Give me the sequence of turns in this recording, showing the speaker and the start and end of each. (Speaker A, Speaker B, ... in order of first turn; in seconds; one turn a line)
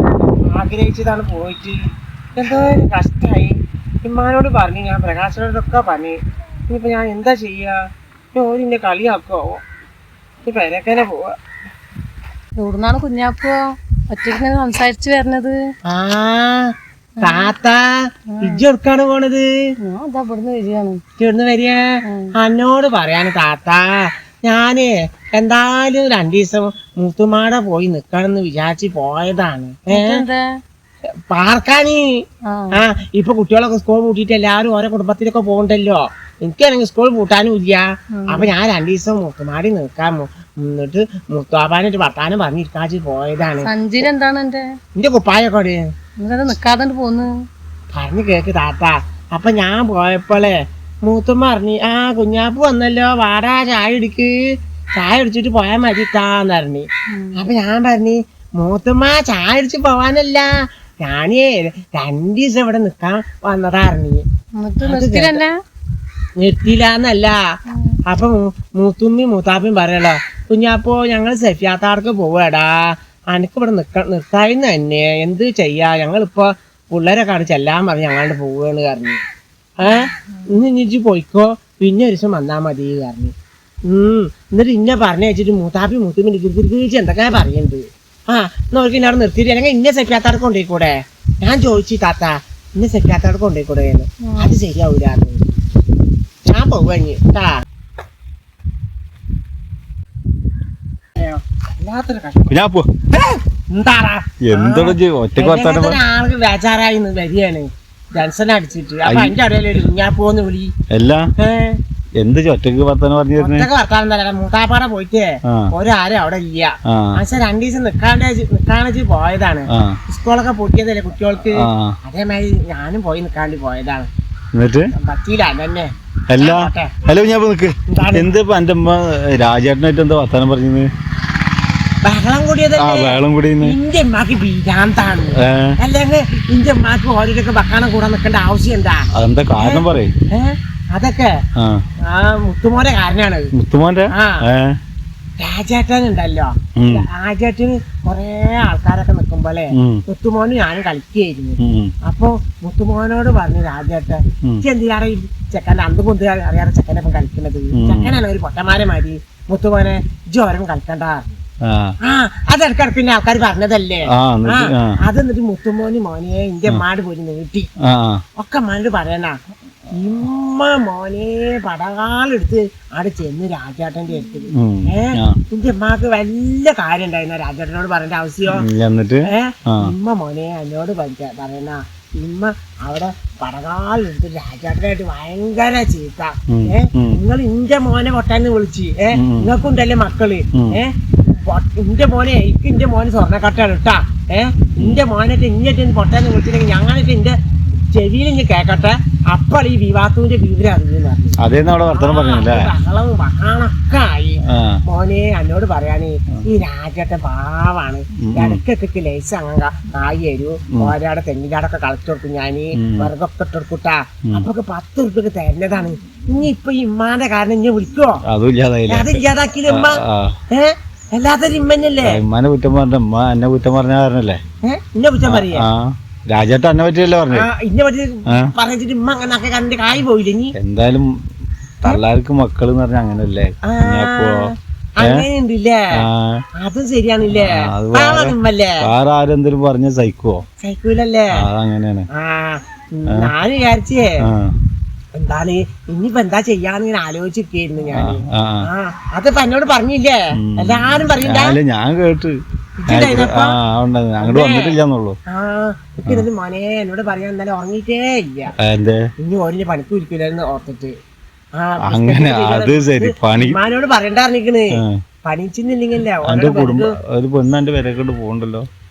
Speaker A: 0.5-1.8
Speaker A: 2.4-6.2
Speaker A: 6.7-9.6
Speaker A: 10.4-11.3
Speaker B: 12.6-13.6
Speaker B: 14.1-15.6
Speaker A: 15.9-19.5
Speaker B: 17.2-17.5
Speaker B: 19.8-21.0
Speaker A: 21.2-30.2
Speaker B: 22.1-22.3
Speaker B: 29.9-30.4
Speaker A: 31.3-43.7
Speaker B: 32.5-32.8
Speaker B: 38.2-38.5
Speaker B: 43.6-44.6
Speaker A: 45.0-45.9
Speaker B: 46.2-47.3
Speaker A: 47.9-64.2
Speaker B: 57.1-57.4
Speaker B: 64.6-65.5
Speaker A: 64.8-65.4
Speaker A: 66.4-67.4
Speaker A: 68.1-79.2
Speaker A: 79.8-83.3
Speaker A: 83.9-95.4
Speaker B: 94.3-94.5
Speaker A: 96.5-97.6
Speaker A: 101.2-102.5
Speaker C: 102.5-102.9
Speaker A: 103.1-110.7
Speaker C: 104.4-106.0
Speaker C: 109.0-109.3
Speaker C: 110.9-111.3
Speaker A: 111.4-111.8
Speaker C: 112.2-113.7
Speaker A: 113.4-124.1
Speaker C: 116.9-117.2
Speaker C: 119.7-120.0
Speaker C: 121.6-122.0
Speaker C: 124.5-124.9
Speaker A: 124.9-126.9
Speaker C: 126.3-130.9
Speaker A: 127.9-128.3
Speaker A: 132.0-141.4
Speaker C: 132.8-133.8
Speaker C: 135.4-135.7
Speaker C: 139.1-140.1
Speaker C: 141.6-141.8
Speaker A: 142.1-143.5
Speaker C: 143.6-144.8
Speaker A: 144.1-144.4
Speaker A: 145.4-161.4
Speaker C: 146.8-147.1
Speaker C: 149.7-150.0
Speaker C: 151.6-151.9
Speaker C: 157.8-158.2
Speaker C: 161.7-161.9
Speaker A: 162.0-167.7
Speaker C: 164.1-165.0
Speaker C: 167.8-168.2
Speaker A: 168.4-169.4
Speaker A: 169.9-178.7
Speaker C: 174.5-175.4
Speaker C: 178.6-179.9
Speaker A: 179.3-190.9
Speaker C: 186.5-187.2
Speaker C: 189.2-189.5
Speaker A: 191.4-197.3
Speaker A: 197.9-201.4
Speaker C: 201.4-202.7
Speaker A: 201.9-218.2
Speaker C: 204.5-204.8
Speaker C: 208.3-208.6
Speaker C: 212.8-213.1
Speaker C: 218.3-220.4
Speaker A: 218.9-222.2
Speaker C: 222.1-224.4
Speaker A: 224.6-225.7
Speaker C: 225.3-227.5
Speaker A: 227.3-230.6
Speaker C: 230.6-231.1
Speaker C: 231.8-235.2
Speaker A: 233.6-235.8
Speaker C: 236.0-236.4
Speaker A: 236.6-238.8
Speaker C: 237.3-240.4
Speaker A: 240.6-241.4
Speaker C: 241.4-242.1
Speaker A: 242.1-244.2
Speaker C: 244.3-244.6
Speaker A: 245.2-251.6
Speaker C: 247.9-248.6
Speaker C: 250.4-252.4
Speaker A: 252.8-253.6
Speaker C: 252.9-255.2
Speaker A: 254.2-254.8
Speaker A: 255.3-258.5
Speaker C: 258.6-259.0
Speaker A: 259.2-260.9
Speaker A: 261.6-266.9
Speaker C: 261.9-263.6
Speaker C: 266.3-268.7